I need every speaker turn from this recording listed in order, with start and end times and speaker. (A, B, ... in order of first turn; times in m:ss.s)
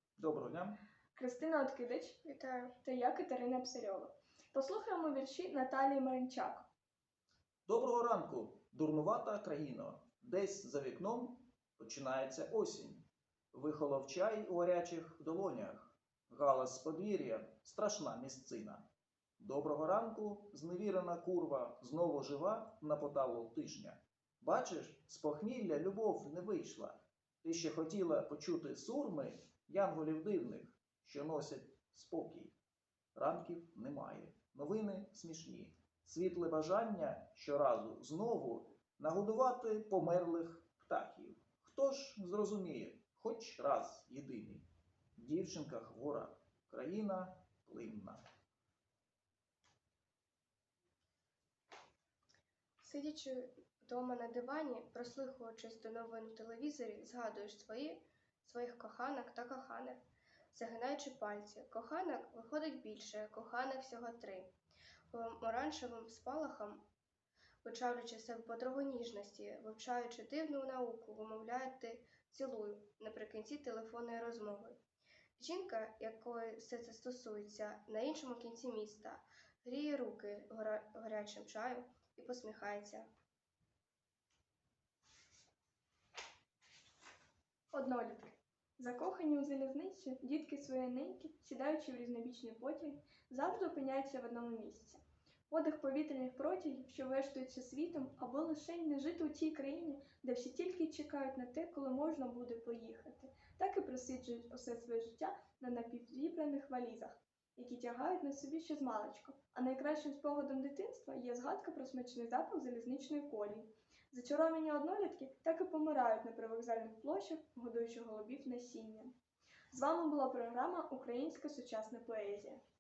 0:00.2-0:00.8 A
0:01.2-0:02.2 B
0:02.2-0:02.8 C
0:02.8-0:06.7 B
0:07.7-0:18.9 A
0:19.4-0:32.5 A
0:33.2-0:44.6 A
0:45.2-0:48.2 A
0:52.8-1:04.5 C
1:05.1-1:06.9 C
1:07.6-1:14.8 C
1:15.4-1:23.1 C
1:27.7-1:59.1 B
1:59.7-2:02.6 B